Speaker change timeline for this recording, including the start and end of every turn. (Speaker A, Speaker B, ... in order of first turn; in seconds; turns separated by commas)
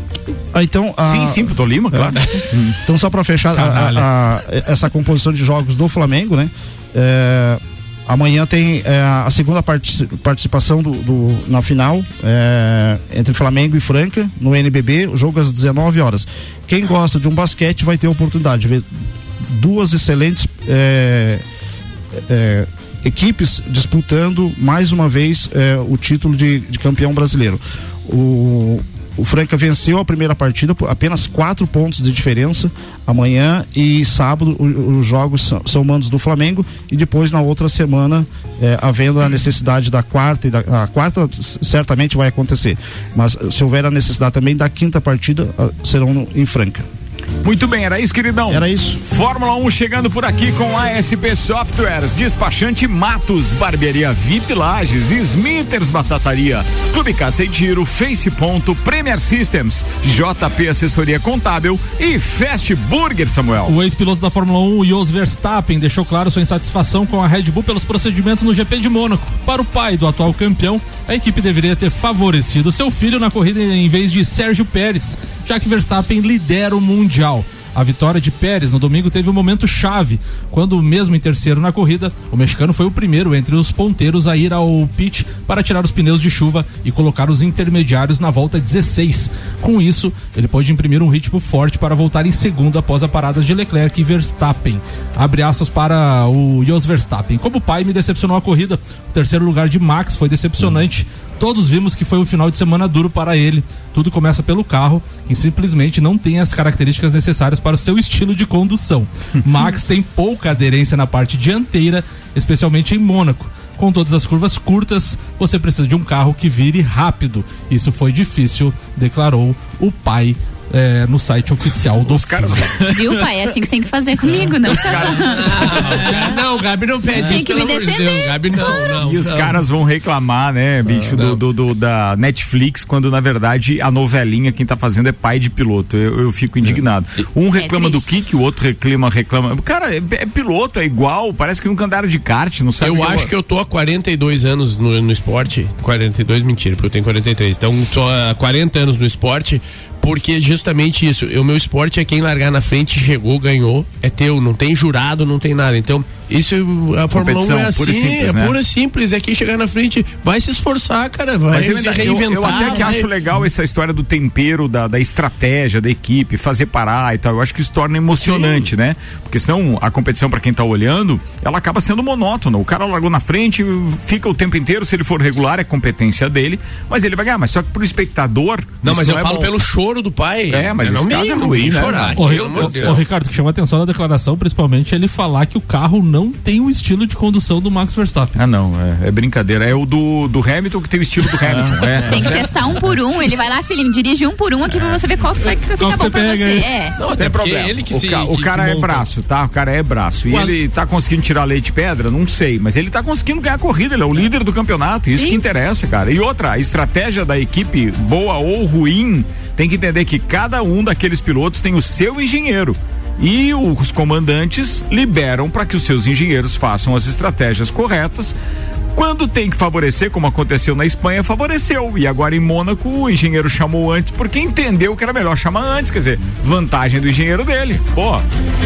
Speaker A: 0.5-2.2, Speaker B: 1.0-2.8, Speaker A: 2.8-18.9, Speaker C: 3.5-4.1, Speaker A: 19.4-21.4, Speaker A: 22.1-46.8, Speaker B: 47.4-63.8, Speaker A: 48.5-49.0, Speaker C: 63.6-122.7, Speaker B: 122.0-123.2, Speaker D: 122.8-126.0, Speaker B: 124.4-126.0, Speaker E: 124.7-129.6, Speaker D: 127.1-128.9, Speaker B: 128.9-143.3, Speaker E: 131.1-131.4, Speaker D: 137.5-138.1, Speaker E: 142.8-163.1, Speaker B: 157.1-158.6, Speaker B: 161.5-179.5, Speaker E: 168.2-168.7, Speaker E: 178.8-183.1, Speaker B: 180.5-183.0, Speaker C: 182.1-188.3, Speaker B: 188.3-192.7, Speaker D: 192.1-196.9, Speaker C: 195.8-196.7, Speaker E: 196.9-199.1, Speaker B: 197.2-218.3, Speaker B: 218.9-228.2